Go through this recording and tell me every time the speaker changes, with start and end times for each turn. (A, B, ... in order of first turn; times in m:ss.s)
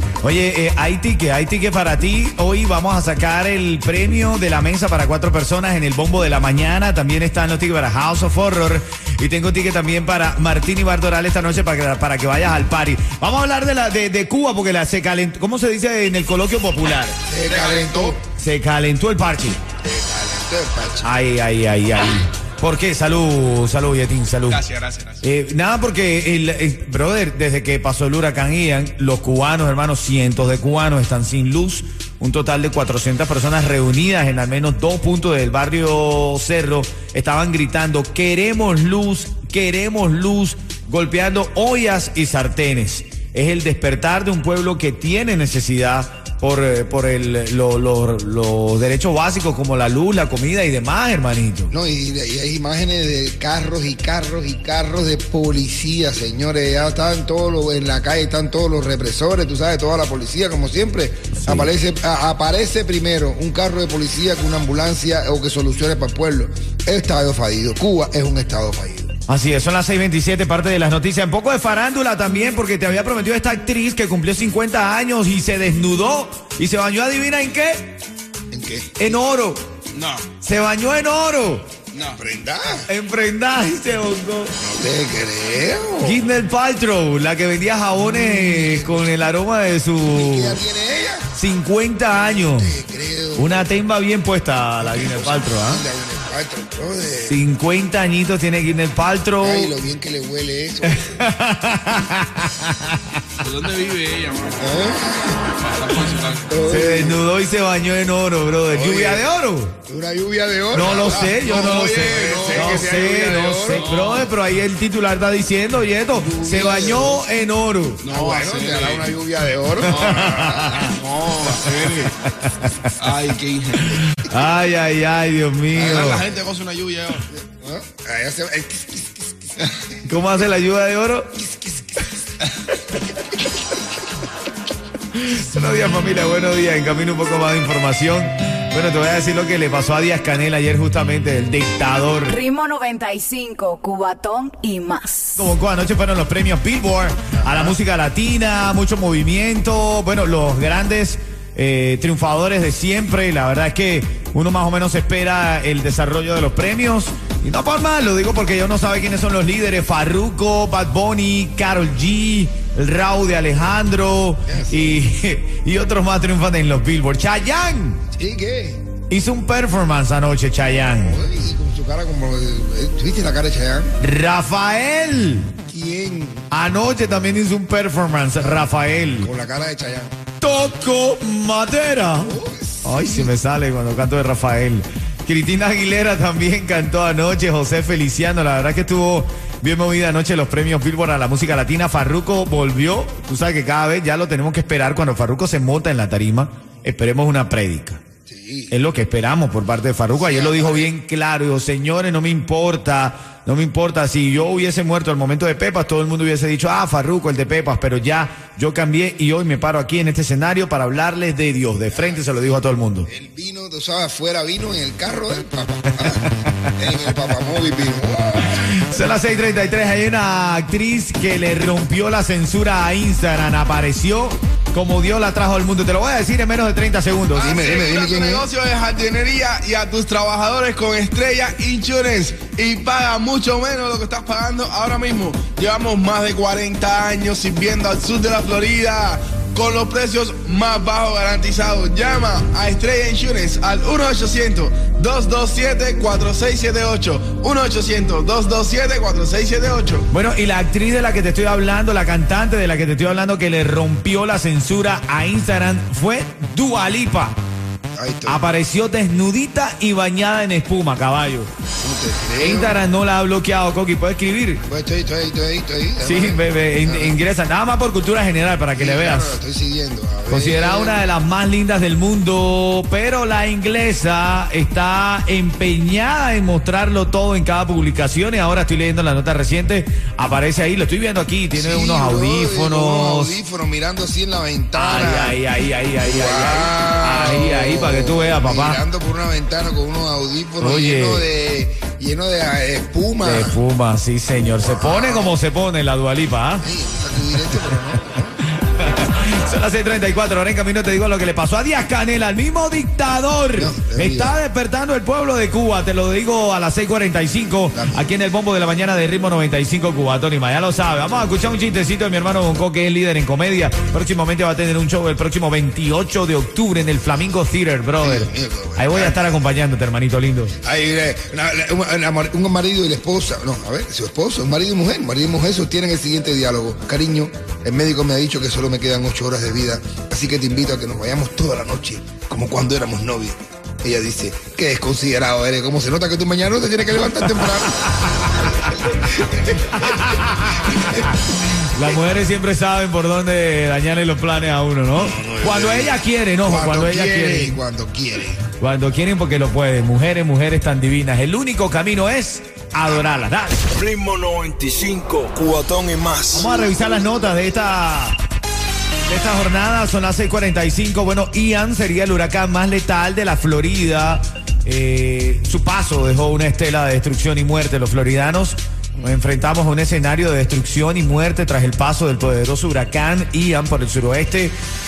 0:00.2-0:17.2 A
0:17.3-0:18.2 B
0:17.5-0:18.2 C
0:18.4-0:19.6 A
0:19.8-0:21.1 B
0:21.0-0:24.6 A
0:24.5-0:25.2 C
0:25.2-0:51.7 A
0:51.7-1:09.1 B
1:01.4-1:01.7 A
1:09.3-1:18.0 A
1:18.5-1:19.1 B
1:19.0-1:19.6 A
1:19.9-1:20.3 C
1:20.4-1:21.7 A
1:21.9-1:22.2 C
1:21.9-1:22.9 B
1:22.9-1:24.5 A
1:24.6-1:26.2 B
1:26.0-1:30.6 A
1:28.0-1:29.0 B
1:30.1-1:31.3 B
1:31.3-1:32.7 A
1:32.5-1:33.7 B
1:33.4-1:35.8 A
1:34.8-1:37.4 B
1:37.2-1:39.7 A
1:39.4-1:41.0 B
1:40.9-1:43.2 A
1:43.4-1:44.7 C
1:44.6-1:45.4 B
1:45.5-1:46.5 C
1:46.5-1:47.2 B
1:46.7-1:49.8 A
1:48.7-1:49.3 B
1:49.9-1:53.9 B
1:50.7-1:58.0 A
1:51.0-1:52.9 C
1:53.7-1:54.3 C
1:56.1-1:57.2 B
1:58.0-1:59.1 C
1:58.1-2:00.9 B
1:59.8-2:00.4 C
1:59.8-2:00.9 A
2:00.9-2:02.2 C
2:02.4-2:02.9 A
2:03.0-2:04.0 C
2:04.0-2:06.2 A
2:05.7-2:07.3 C
2:07.3-2:09.9 B
2:10.0-2:11.3 A
2:11.4-2:12.1 B
2:15.1-2:22.4 A
2:22.3-2:25.4 D
2:25.4-2:48.0 A
2:27.4-2:27.8 B
2:44.5-2:45.0 B
2:48.1-2:48.8 B
2:49.1-2:51.2 A
2:51.0-2:53.9 B
2:54.0-2:55.5 A
2:55.7-2:56.5 B
2:56.5-2:59.3 A
2:59.2-3:00.1 B
3:00.4-3:18.0 A
3:02.2-3:03.3 B
3:18.3-3:18.7 B
3:18.7-3:33.1 A
3:20.1-3:20.9 B
3:31.9-3:32.5 B
3:33.1-3:38.6 B
3:36.0-3:36.5 A
3:38.5-3:47.6 A
3:47.3-4:10.0 C
3:47.4-3:48.5 B
4:10.1-4:17.4 A
4:18.0-4:18.4 B
4:18.3-4:21.5 A
4:21.8-4:22.8 B
4:22.4-4:24.6 A
4:24.7-4:27.2 B
4:26.0-4:29.4 A
4:28.8-4:31.0 B
4:30.3-4:43.4 A
4:41.5-4:45.4 B
4:44.8-4:48.8 A
4:46.0-4:53.6 B
4:50.6-4:51.3 A
4:53.2-4:56.7 A
4:54.6-4:55.4 B
4:56.6-4:58.4 B
4:58.5-5:20.6 A
5:03.6-5:04.4 B
5:07.7-5:08.1 B
5:18.0-5:19.3 B
5:20.6-5:41.0 B
5:38.0-5:38.5 A
5:39.2-5:47.6 A
5:45.0-5:48.4 B
5:48.6-5:53.6 A
5:53.7-5:56.5 E
5:56.3-5:58.2 A
5:59.1-6:14.5 A